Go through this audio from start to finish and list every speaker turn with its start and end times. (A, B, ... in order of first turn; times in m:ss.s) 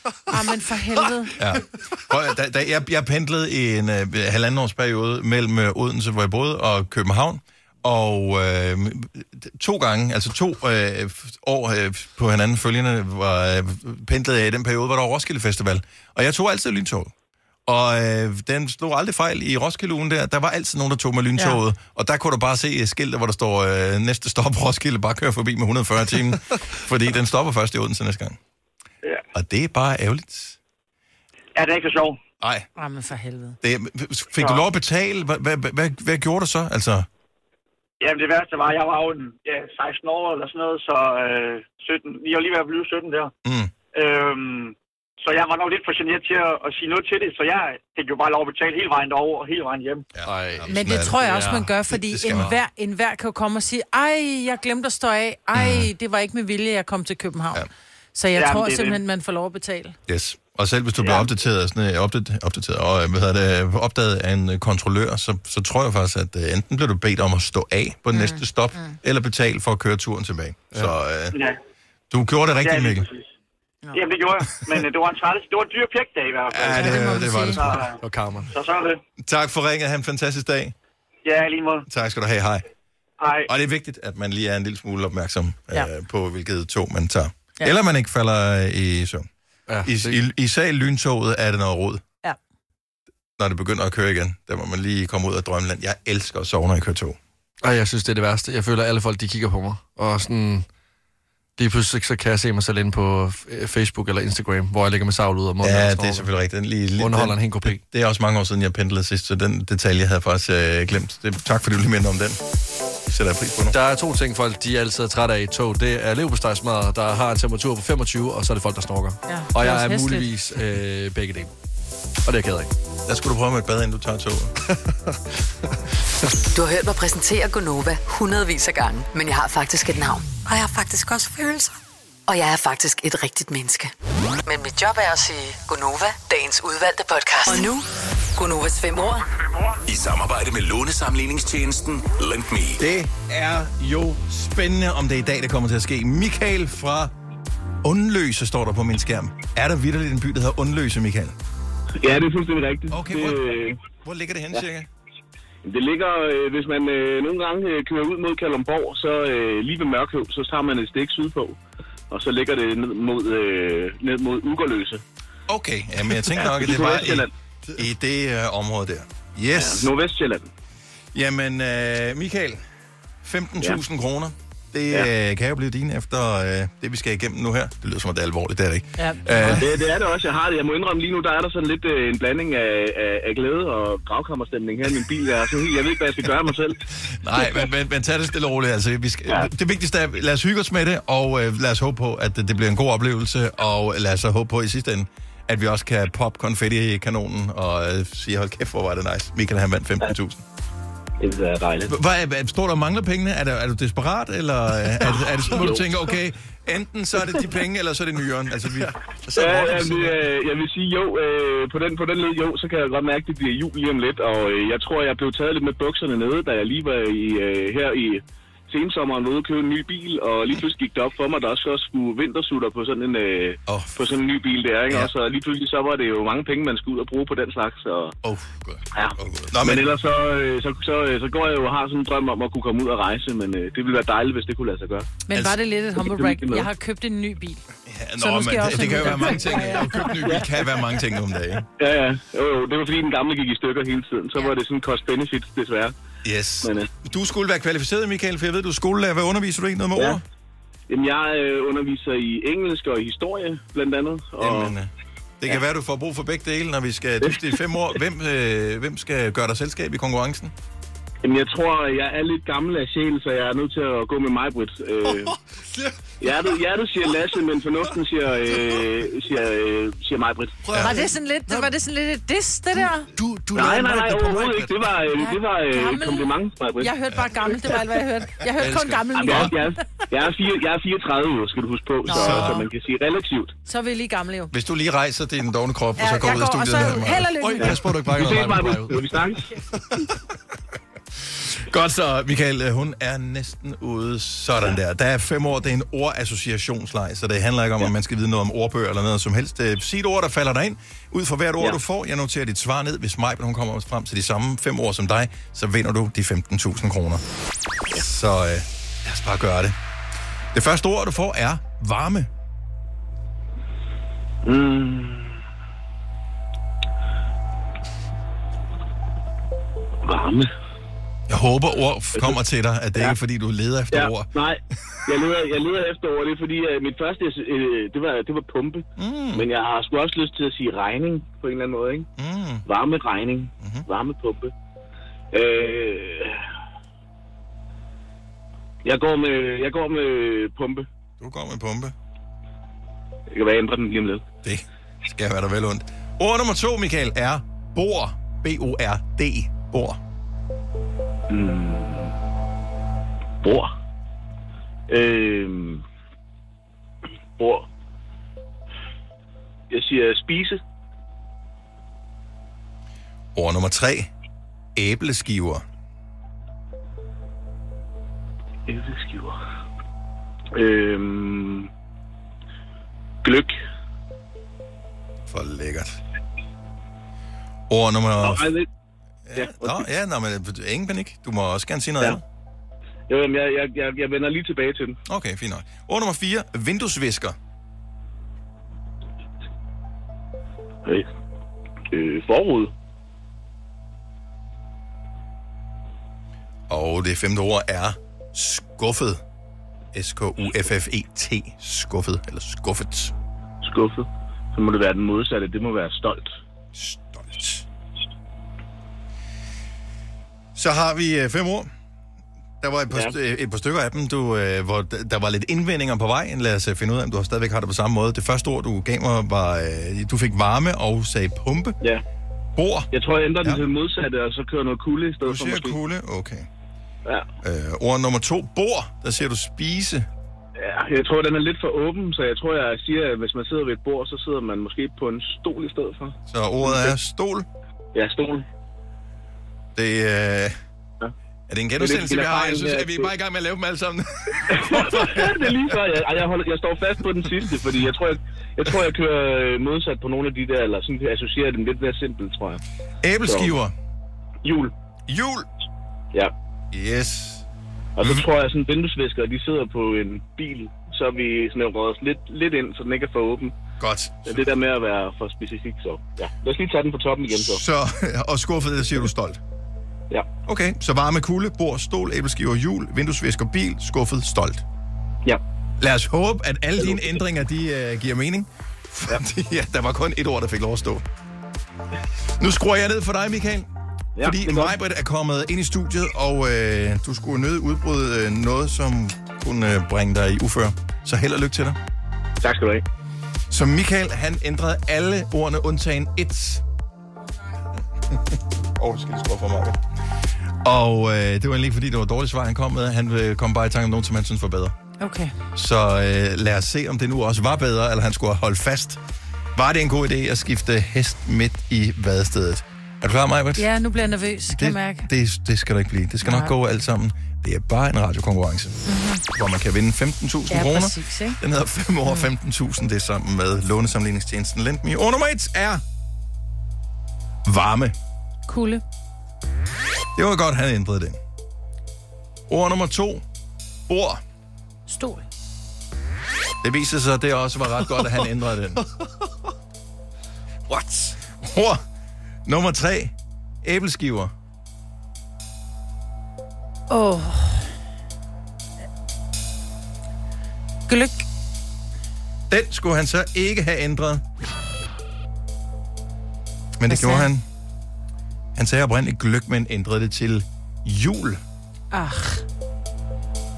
0:00.3-0:01.3 A
0:01.4-0:17.1 B
0:17.7-0:28.4 B
0:29.3-0:30.6 B
0:31.6-0:32.2 C
0:32.4-0:32.7 B
0:32.8-0:33.6 A
0:33.6-0:37.1 B
0:34.4-0:34.6 C
0:38.0-0:43.3 C
0:43.4-0:43.7 B
0:43.9-0:50.1 C
0:50.1-0:52.6 B
0:50.2-0:51.7 D
0:50.7-1:00.0 A
0:55.5-0:55.9 B
0:58.4-0:59.0 C
1:00.1-1:11.4 B
1:01.0-1:01.3 C
1:08.1-1:09.0 A
1:11.3-1:11.6 C
1:12.1-1:13.1 B
1:12.6-1:13.3 C
1:13.9-1:19.0 C
1:16.5-1:17.9 B
1:16.7-1:17.6 A
1:18.0-1:18.5 D
1:19.2-1:20.7 B
1:21.2-1:21.9 C
1:21.9-1:22.6 B
1:23.2-1:23.5 C
1:23.5-1:29.3 B
1:29.7-1:30.2 D
1:29.8-1:32.0 B
1:33.4-1:37.2 B
1:37.6-1:40.6 D
1:41.6-1:46.3 D
1:45.6-1:52.4 B
1:47.0-1:47.8 D
1:53.1-1:53.8 B
1:53.7-2:01.5 D
1:59.3-2:00.3 A
2:02.2-2:02.7 D
2:03.1-2:04.5 B
2:04.7-2:05.8 D
2:06.5-2:11.7 E
2:12.3-2:13.9 E
2:14.4-2:19.2 E
2:19.9-2:22.8 F
2:22.8-2:27.1 B
2:27.8-2:31.4 B
2:32.0-2:33.8 G
2:32.9-2:34.9 B
2:35.6-2:41.6 G
2:42.1-2:45.0 G
2:45.5-2:49.9 B
2:46.3-2:47.3 G
2:49.5-2:50.5 G
2:51.1-2:52.6 B
2:53.2-2:59.8 B
2:59.0-2:59.6 A
2:59.5-3:06.8 G
3:07.1-3:20.4 B
3:21.2-3:22.0 G
3:21.9-3:28.9 B
3:25.5-3:25.8 D
3:25.5-3:25.8 G
3:28.8-3:30.2 D
3:29.4-3:48.2 G
3:43.7-3:44.0 B
3:48.2-3:49.9 B
3:48.9-3:55.2 G
3:55.3-3:57.6 A
3:56.0-3:56.7 G
3:57.9-4:01.6 B
3:58.2-4:00.4 A
4:00.2-4:00.5 G
4:01.8-4:06.0 G
4:06.2-4:10.2 B
4:06.6-4:06.9 G
4:10.9-4:14.8 G
4:14.4-4:20.5 B
4:21.2-4:25.4 G
4:25.0-4:27.2 D
4:26.2-4:30.6 G
4:28.5-4:28.8 D
4:30.6-4:31.7 D
4:30.8-4:33.1 A
4:33.1-4:34.9 D
4:33.5-4:36.9 G
4:35.2-4:39.8 A
4:38.6-4:39.5 D
4:39.1-4:43.6 G
4:42.1-4:42.7 A
4:42.1-4:42.6 B
4:43.7-4:44.5 A
4:44.5-4:47.3 B
4:46.0-4:47.8 A
4:47.4-4:49.8 D
4:47.6-4:49.5 G
4:51.5-5:07.2 B
5:07.9-5:09.8 B
5:10.5-5:12.3 B
5:14.4-5:15.4 G
5:20.0-5:20.5 G
5:21.3-5:24.3 B
5:23.9-5:32.1 G
5:29.0-5:29.5 B
5:32.2-5:32.7 B
5:32.7-5:34.5 G
5:33.6-5:33.9 B
5:35.3-5:36.4 G
5:38.8-5:40.9 G
5:41.2-5:41.9 B
5:43.3-5:44.3 G
5:44.4-5:50.0 B
5:51.3-5:52.1 G
5:53.4-5:53.7 G
5:54.9-5:55.8 G
5:57.4-5:57.7 G
5:59.7-6:00.6 G
6:03.4-6:04.1 B
6:04.8-6:05.6 B
6:08.7-6:09.4 G
6:10.5-6:11.7 G
6:13.2-6:13.5 G
6:15.3-6:16.0 B
6:17.7-6:18.5 B
6:18.2-6:18.7 G
6:19.3-6:22.2 B
6:19.4-6:19.9 G
6:23.1-6:25.0 G
6:25.1-6:27.4 B
6:31.9-6:32.7 G
6:36.7-6:39.2 B
6:39.9-6:43.1 B
6:43.6-6:46.4 G
6:46.8-6:47.6 B
6:50.6-6:51.7 B
6:52.6-7:01.8 B
7:02.6-7:02.9 B
7:02.9-7:05.8 G
7:05.2-7:06.5 B
7:07.4-7:10.1 B
7:10.6-7:17.0 G
7:16.3-7:17.5 B
7:17.9-7:18.5 G
7:19.8-7:20.6 B
7:21.5-7:25.8 B
7:21.8-7:23.1 G
7:24.5-7:32.6 G
7:33.0-7:33.7 B
7:33.2-7:33.6 G
7:34.4-7:34.7 G
7:35.1-7:35.5 B
7:36.7-7:37.4 B
7:38.0-7:43.6 G
7:38.0-7:38.3 B
7:43.8-7:44.5 B
7:44.3-7:47.6 G
7:47.3-7:49.4 B
7:50.5-7:54.6 B
7:55.8-8:01.0 B
7:56.8-7:57.2 G
8:02.4-8:03.7 B
8:04.2-8:04.8 G
8:04.2-8:11.8 B
8:12.4-8:12.8 G
8:13.5-8:16.6 B
8:18.1-8:19.8 B
8:20.6-8:24.8 B
8:25.0-8:25.4 A
8:25.6-8:29.0 B
8:29.6-8:33.7 B
8:33.6-8:35.1 A
8:34.5-8:45.8 B
8:36.2-8:36.6 A
8:38.9-8:39.2 A
8:40.5-8:41.4 A
8:47.5-8:48.0 B
8:48.5-8:48.8 A
8:50.2-8:51.2 B
8:52.5-8:53.2 B
8:53.9-8:54.2 B
8:54.9-8:55.3 A
8:56.6-8:58.8 B
9:00.7-9:01.2 D
9:01.3-9:01.8 B
9:02.5-9:04.3 B
9:06.9-9:07.7 A
9:10.9-9:11.2 A
9:12.5-9:14.2 B
9:16.8-9:17.4 B
9:16.9-9:17.3 A
9:18.6-9:21.4 B
9:21.9-9:22.4 A